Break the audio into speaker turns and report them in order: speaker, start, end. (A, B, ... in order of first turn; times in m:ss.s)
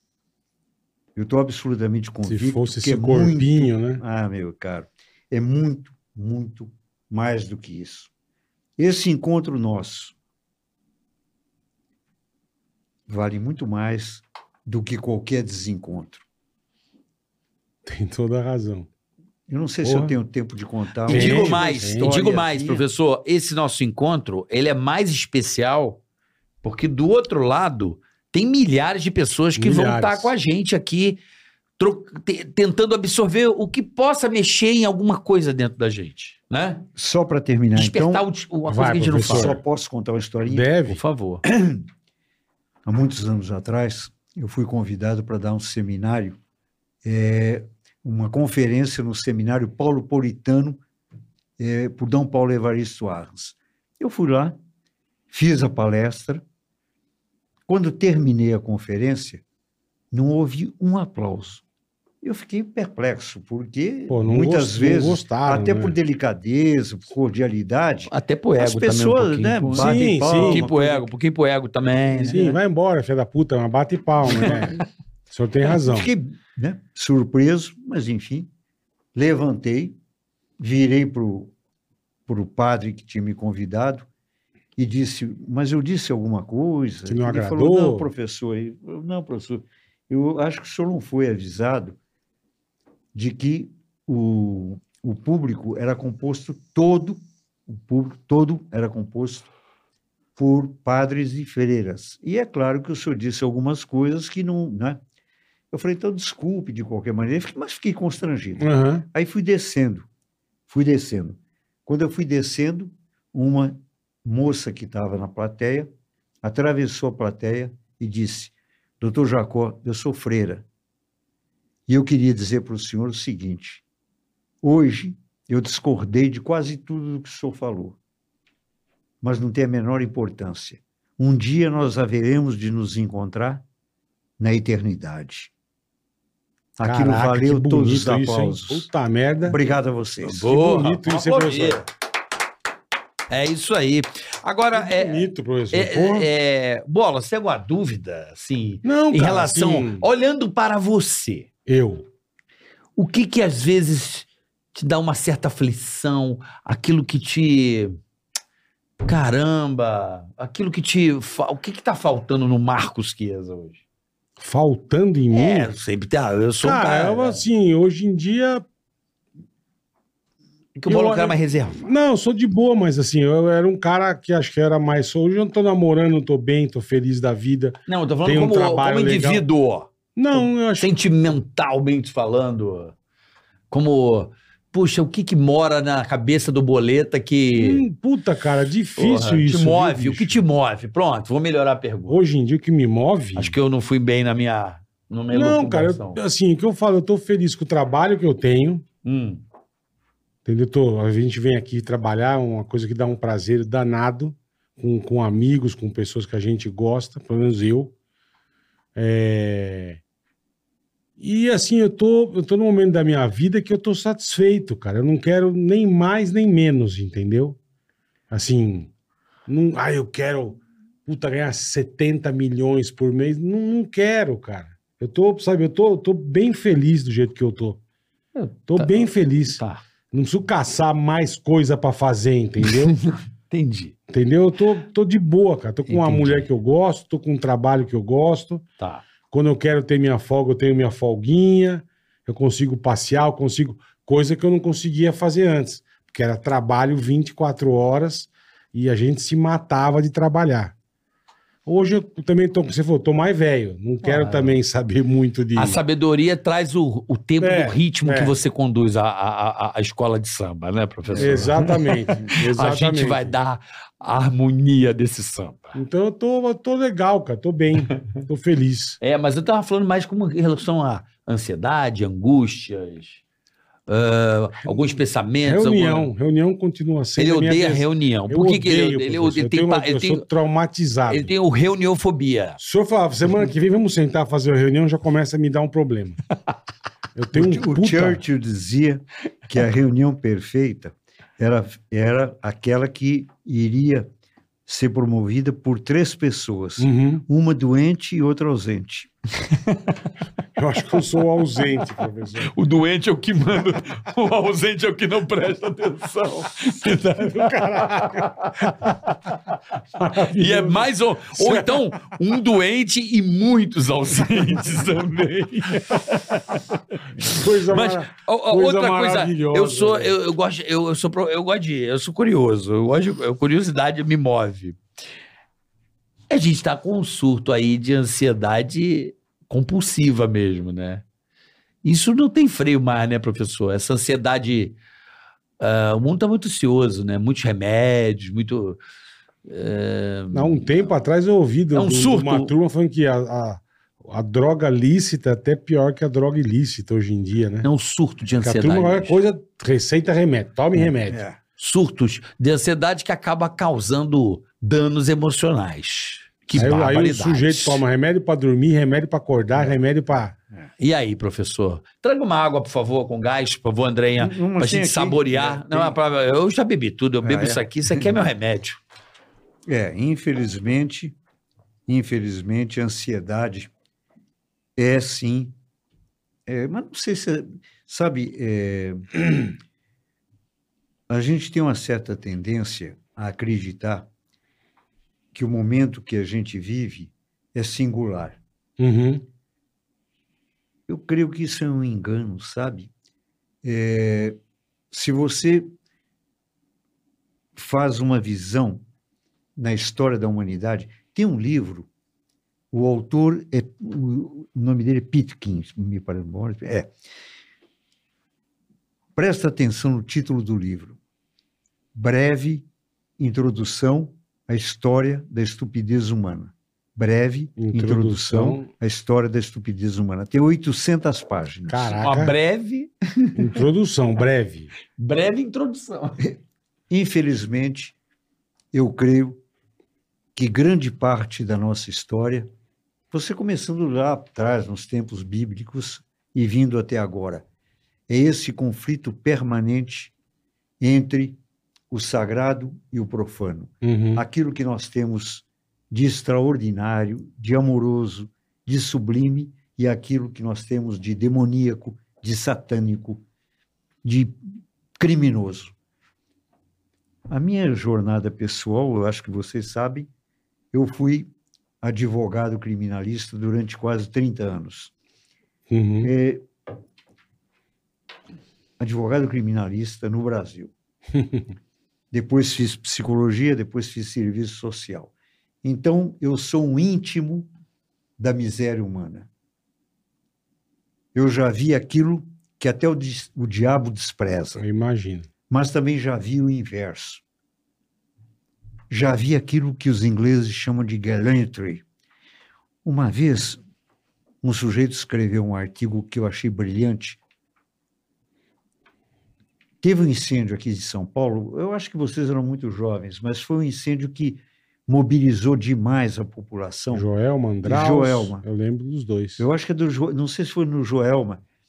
0:01.1-0:08.1 A
0:02.2-0:04.0 B
0:08.8-0:10.1 A
0:13.1-0:16.2 A
0:17.8-0:18.9 B
0:19.5-0:22.8 A
0:19.8-0:20.1 B
0:21.1-0:22.2 B
0:21.1-0:26.0 C
0:26.6-0:31.2 C
0:29.6-0:30.3 B
0:31.8-0:36.8 C
0:37.0-0:38.2 A
0:37.7-0:39.6 C
0:38.7-0:39.6 B
0:39.2-0:40.7 A
0:40.5-0:41.0 B
0:40.8-0:41.4 C
0:41.4-0:41.8 A
0:42.8-0:46.4 A
0:47.0-0:50.8 A
0:51.6-0:54.6 A
0:55.3-0:56.4 A
0:57.7-0:59.4 A
1:00.1-1:01.6 A
1:02.2-1:11.0 A
1:04.1-1:06.0 B
1:08.1-1:12.5 C
1:09.7-1:10.7 B
1:12.2-1:14.8 B
1:14.3-1:14.6 A
1:15.3-1:16.1 B
1:15.7-1:18.5 A
1:19.1-1:20.0 A
1:20.6-1:21.5 A
1:22.3-1:24.0 A
1:24.8-1:32.0 A
1:27.1-1:28.1 B
1:33.1-1:39.5 A
1:40.4-1:45.0 A
1:45.7-1:50.1 A
1:48.6-1:49.0 B
1:50.7-1:55.9 A
1:56.4-2:00.6 A
2:01.9-2:03.8 A
2:04.6-2:08.0 A
2:09.2-2:13.6 A
2:14.4-2:15.5 A
2:16.8-2:18.9 A
2:16.8-2:19.6 B
2:19.4-2:20.5 A
2:20.2-2:21.9 C
2:20.4-2:21.8 B
2:23.3-2:31.5 C
2:24.7-2:26.3 B
2:28.8-2:30.0 B
2:31.6-2:32.0 B
2:33.0-2:38.0 C
2:39.0-2:43.8 C
2:44.4-2:45.7 B
2:45.3-2:47.4 C
2:46.6-2:48.6 B
2:50.8-2:51.8 C
2:50.9-2:59.4 B
2:57.9-3:02.9 C
3:00.2-3:00.9 B
3:03.7-3:07.8 C
3:07.6-3:10.4 B
3:09.0-3:12.2 C
3:12.1-3:13.6 B
3:13.4-3:16.2 C
3:15.3-3:18.8 B
3:19.0-3:19.4 C
3:20.4-3:27.9 B
3:28.9-3:30.0 B
3:31.2-3:37.6 B
3:38.3-3:38.9 B
3:39.5-3:47.8 B
3:48.3-3:49.8 C
3:48.7-3:49.6 B
3:50.1-3:52.9 B
3:52.6-3:53.9 C
3:54.1-3:58.6 B
3:55.9-3:56.5 C
3:58.8-3:59.0 C
3:59.3-4:10.7 B
4:11.6-4:15.8 B
4:14.0-4:14.6 C
4:15.5-4:25.8 C
4:17.4-4:18.4 B
4:21.2-4:21.6 A
4:21.2-4:23.3 B
4:25.7-4:29.0 B
4:29.0-4:33.2 C
4:33.9-4:36.1 C
4:35.4-4:41.3 B
4:37.2-4:40.2 C
4:41.1-4:42.6 C
4:42.6-4:46.2 B
4:47.2-4:48.2 B
4:47.3-4:54.1 A
4:54.6-4:59.1 A
4:56.8-4:57.2 B
4:59.5-5:00.1 C
5:00.6-5:02.5 B
5:02.4-5:09.4 C
5:06.8-5:08.7 B
5:10.0-5:11.9 B
5:10.1-5:24.8 C
5:17.2-5:20.1 B
5:26.3-5:31.0 C
5:31.8-5:34.8 C
5:35.6-5:38.8 C
5:39.4-5:40.8 C
5:40.3-5:47.7 B
5:41.7-5:42.5 C
5:47.6-5:49.2 C
5:48.4-5:51.2 B
5:51.0-5:51.4 A
5:51.6-5:57.8 C
5:56.5-6:00.3 B
6:00.8-6:08.8 C
6:04.2-6:06.0 A
6:07.2-6:08.1 A
6:09.7-6:11.1 A
6:11.9-6:13.7 A
6:14.8-6:15.5 A
6:16.5-6:19.5 A
6:21.1-6:24.1 A
6:25.3-6:28.4 A
6:28.8-6:29.2 B
6:30.9-6:32.9 A
6:33.6-6:34.4 A
6:34.9-6:35.7 A
6:37.6-6:38.8 A
6:39.6-6:41.9 A
6:42.7-6:46.9 A
6:49.2-6:51.0 A
6:51.9-6:52.6 A
6:53.2-7:02.0 A
6:57.6-6:58.6 B
7:01.7-7:02.3 B
7:02.0-7:03.4 C
7:03.4-7:04.7 B
7:05.0-7:06.2 C
7:06.9-7:07.9 A
7:08.7-7:09.4 A
7:10.4-7:12.5 A
7:13.1-7:17.4 A
7:18.1-7:20.1 A
7:20.8-7:21.4 A
7:21.9-7:33.2 A
7:23.8-7:24.2 B
7:34.0-7:34.3 A
7:35.0-7:35.7 A
7:37.3-7:40.1 A
7:40.7-7:41.3 A
7:41.8-7:44.9 A
7:45.7-7:46.1 B
7:46.0-7:46.4 A
7:48.8-7:50.7 A
7:51.1-7:51.4 B
7:52.1-7:55.1 A
7:55.6-7:57.5 A
7:58.2-7:59.3 A
8:01.1-8:04.6 A
8:04.6-8:05.3 B
8:05.5-8:07.2 A
8:08.9-8:11.8 A
8:12.8-8:13.6 A
8:14.4-8:17.2 A
8:19.8-8:27.1 A
8:26.9-8:29.4 B
8:27.6-8:28.4 A
8:29.4-8:31.4 A